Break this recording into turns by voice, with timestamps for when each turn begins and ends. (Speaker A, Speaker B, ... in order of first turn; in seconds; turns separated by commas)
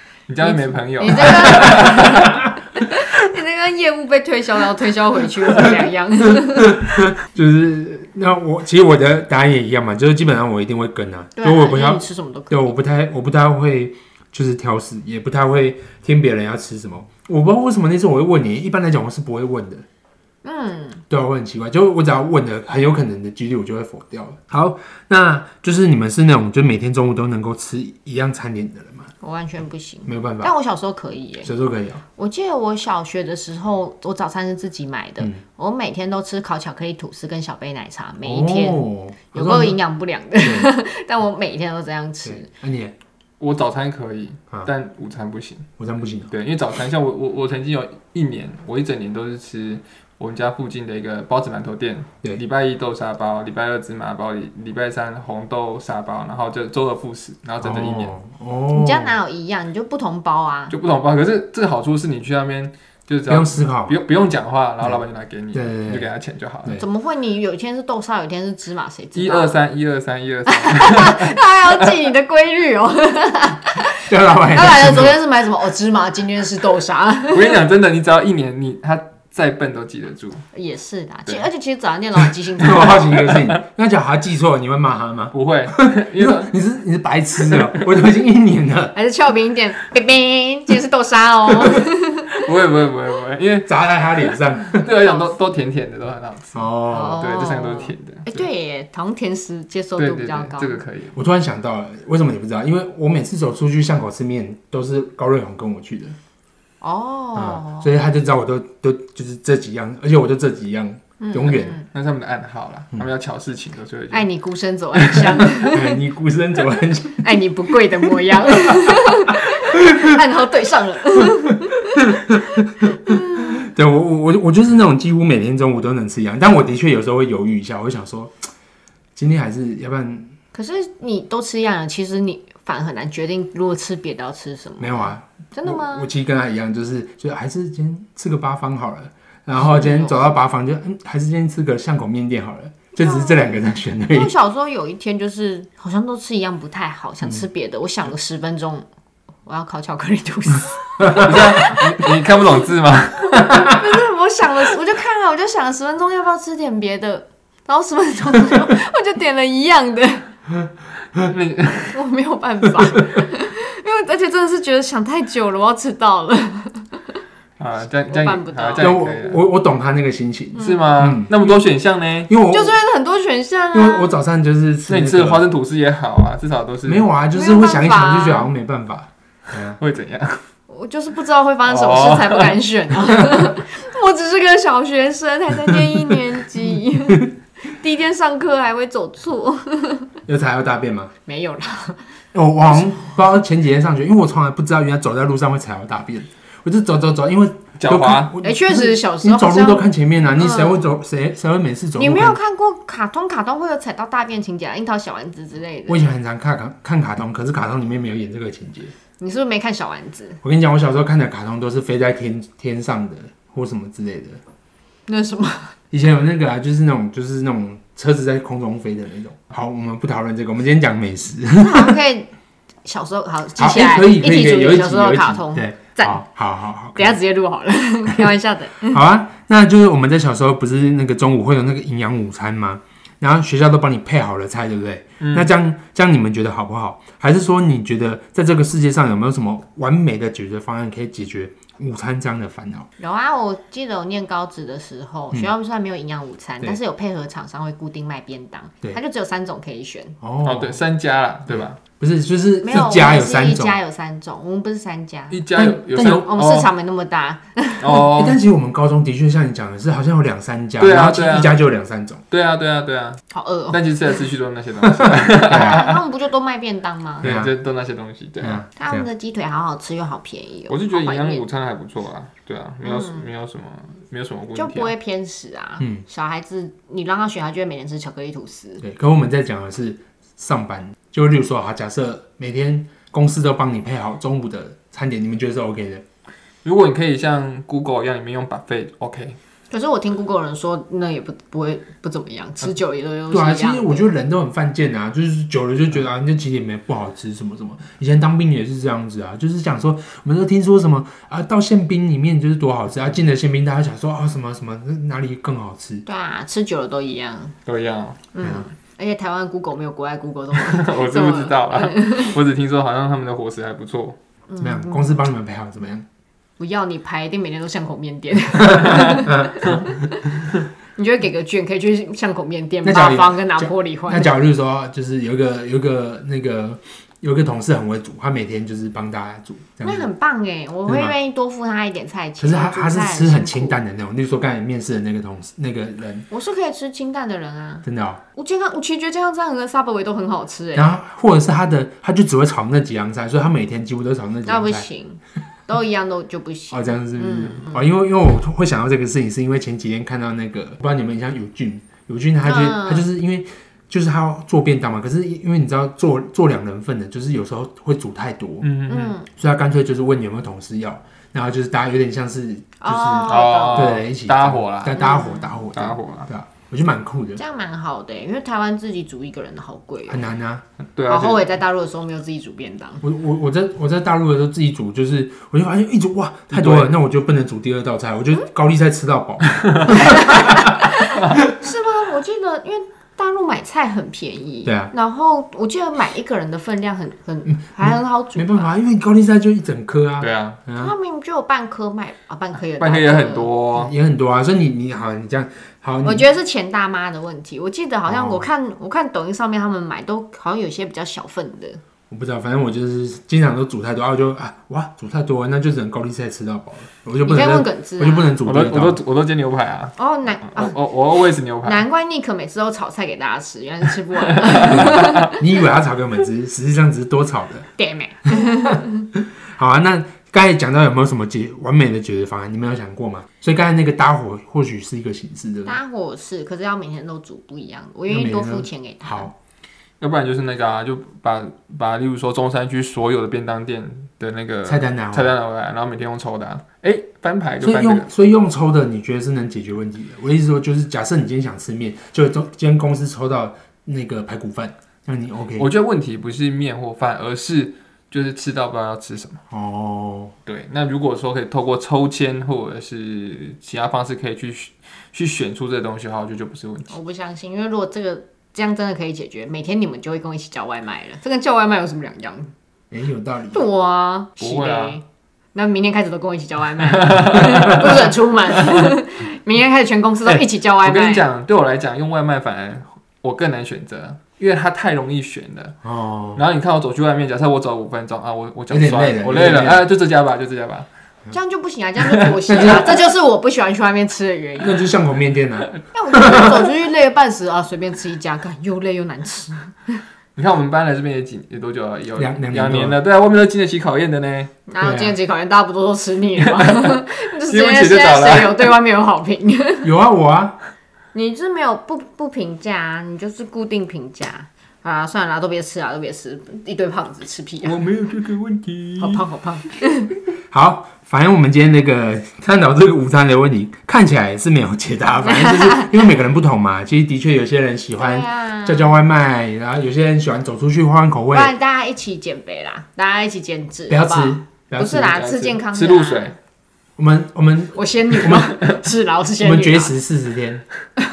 Speaker A: 0.3-2.4, Speaker B: 0.4-6.9, Speaker C: 6.3-19.9, Speaker B: 11.4-12.8, Speaker B: 20.4-21.0, Speaker C: 21.1-29.1, Speaker B: 29.2-31.5, Speaker C: 30.1-30.5, Speaker C: 31.4-32.0, Speaker B: 32.2-42.5, Speaker C: 38.2-39.8, Speaker C: 40.4-40.7, Speaker C: 42.2-43.0, Speaker A: 43.4-45.7, Speaker C: 45.8-46.3, Speaker A: 46.3-58.2, Speaker C: 57.6-59.2, Speaker B: 58.7-60.8, Speaker A: 60.7-66.8, Speaker C: 63.3-64.0, Speaker C: 65.5-66.1, Speaker B: 66.8-69.6, Speaker A: 69.2-71.4, Speaker B: 70.5-77.6, Speaker C: 74.1-75.2, Speaker A: 77.3-80.4, Speaker B: 80.5-83.1, Speaker C: 82.6-89.0, Speaker A: 82.7-83.6, Speaker A: 85.3-86.5, Speaker B: 88.9-92.4, Speaker A: 92.4-98.5, Speaker C: 93.7-94.9, Speaker B: 94.9-95.3, Speaker C: 96.5-97.2, Speaker B: 96.9-100.8, Speaker A: 100.0-101.2, Speaker C: 101.1-106.2, Speaker B: 106.8-107.9, Speaker C: 107.4-111.8, Speaker B: 111.2-111.9, Speaker A: 111.9-114.3, Speaker B: 114.1-116.0, Speaker A: 115.0-115.4, Speaker C: 115.4-117.4, Speaker B: 117.2-122.0, Speaker C: 118.1-119.0, Speaker C: 122.8-128.4, Speaker B: 123.1-123.6, Speaker C: 129.2-130.3, Speaker B: 130.5-136.1, Speaker C: 134.8-144.3, Speaker B: 139.6-140.4, Speaker B: 143.0-148.8, Speaker B: 149.5-152.2, Speaker C: 151.0-151.4, Speaker A: 151.2-153.5, Speaker B: 153.4-160.3, Speaker A: 161.2-162.0, Speaker B: 161.9-167.2, Speaker C: 162.8-163.2, Speaker A: 167.6-169.4, Speaker B: 168.1-168.9, Speaker C: 168.8-171.4, Speaker B: 170.6-171.0, Speaker A: 170.6-172.3, Speaker C: 172.3-172.8, Speaker B: 172.5-174.2, Speaker C: 173.7-175.5, Speaker A: 174.9-177.1, Speaker C: 176.9-179.8, Speaker B: 177.3-178.5, Speaker A: 179.8-180.4, Speaker B: 180.7-190.1, Speaker A: 181.7-182.6, Speaker C: 190.3-191.1, Speaker B: 191.3-192.0, Speaker C: 192.3-202.4, Speaker B: 192.7-193.2, Speaker A: 197.8-198.3, Speaker B: 198.4-200.9, Speaker B: 201.9-206.1, Speaker C: 205.9-208.9, Speaker B: 209.2-210.4, Speaker C: 210.4-214.4, Speaker B: 215.1-215.7, Speaker C: 215.9-222.0, Speaker B: 221.6-222.3, Speaker B: 222.8-226.2, Speaker C: 223.6-227.2, Speaker B: 226.9-229.0, Speaker C: 228.9-242.9, Speaker A: 235.2-235.5, Speaker B: 243.0-250.2, Speaker C: 250.2-250.8, Speaker A: 250.4-251.8, Speaker C: 251.5-253.8, Speaker B: 252.6-255.4, Speaker A: 255.3-256.7, Speaker C: 255.5-256.3, Speaker B: 256.0-258.1, Speaker A: 257.8-258.4, Speaker C: 258.1-262.2, Speaker A: 260.8-261.6, Speaker A: 262.3-266.0, Speaker B: 263.3-263.8, Speaker C: 265.0-265.8, Speaker B: 265.4-267.4, Speaker A: 267.2-268.6, Speaker C: 267.2-267.5, Speaker C: 268.4-269.1, Speaker B: 268.8-271.4, Speaker A: 270.7-274.9, Speaker B: 272.8-273.3, Speaker B: 274.6-278.8, Speaker C: 278.8-286.0, Speaker A: 286.6-289.4, Speaker B: 289.7-294.1, Speaker C: 293.3-306.1, Speaker B: 306.1-307.6, Speaker A: 307.7-308.2, Speaker B: 308.3-312.4, Speaker A: 310.6-314.2, Speaker B: 314.5-315.2, Speaker C: 314.6-316.1, Speaker B: 316.6-320.2, Speaker C: 318.6-319.9, Speaker B: 320.9-324.4, Speaker C: 322.8-330.1, Speaker B: 329.8-333.8, Speaker C: 330.9-331.1, Speaker C: 332.4-336.3, Speaker B: 336.3-337.9, Speaker C: 337.8-338.2, Speaker B: 338.4-340.9, Speaker C: 340.8-344.9, Speaker B: 344.4-347.9, Speaker C: 346.7-358.7, Speaker B: 352.4-353.1, Speaker A: 358.6-359.1, Speaker B: 358.9-359.3, Speaker C: 359.3-367.4, Speaker B: 362.8-364.0, Speaker A: 363.2-365.0, Speaker B: 364.9-365.6, Speaker A: 365.7-366.3, Speaker B: 367.4-370.3, Speaker C: 370.1-370.6, Speaker A: 371.0-371.5, Speaker B: 371.1-373.0, Speaker C: 373.0-380.8, Speaker A: 376.5-376.9, Speaker B: 380.0-388.7, Speaker C: 384.6-384.9, Speaker C: 387.8-390.9, Speaker A: 390.2-390.6, Speaker B: 390.7-393.6, Speaker A: 392.8-393.9, Speaker C: 393.7-396.3, Speaker B: 396.0-401.8, Speaker C: 398.1-398.5, Speaker C: 402.1-409.0, Speaker B: 407.2-408.4, Speaker A: 408.4-411.8, Speaker B: 410.0-410.8, Speaker B: 411.6-415.4, Speaker A: 414.4-415.3, Speaker C: 414.6-417.7, Speaker B: 417.8-419.0, Speaker C: 418.3-425.8, Speaker B: 425.7-429.3, Speaker C: 428.1-429.3, Speaker A: 430.0-438.1, Speaker C: 434.6-435.3, Speaker C: 437.6-445.7, Speaker A: 445.6-449.4, Speaker C: 449.5-450.3, Speaker A: 450.5-456.9, Speaker B: 456.9-462.5, Speaker C: 462.9-463.7, Speaker B: 463.5-465.0, Speaker A: 464.4-465.0, Speaker B: 465.6-471.3, Speaker A: 466.9-468.9, Speaker A: 470.3-475.8, Speaker C: 475.8-476.4, Speaker A: 476.4-480.9, Speaker C: 478.7-479.9, Speaker B: 481.3-484.9, Speaker A: 482.0-482.7, Speaker C: 482.5-483.0, Speaker C: 484.6-486.7, Speaker B: 485.9-490.0, Speaker A: 490.4-494.5, Speaker C: 492.2-493.0, Speaker B: 494.7-499.9, Speaker C: 494.8-495.2, Speaker A: 496.4-498.8, Speaker C: 499.8-500.6, Speaker B: 501.1-507.8, Speaker A: 507.6-509.2, Speaker B: 509.0-510.1, Speaker C: 510.5-521.5, Speaker B: 515.2-516.0, Speaker B: 518.0-519.0, Speaker B: 521.3-526.4, Speaker C: 523.9-525.2, Speaker A: 525.0-526.3, Speaker C: 527.0-528.6, Speaker B: 527.8-530.0, Speaker C: 529.4-530.6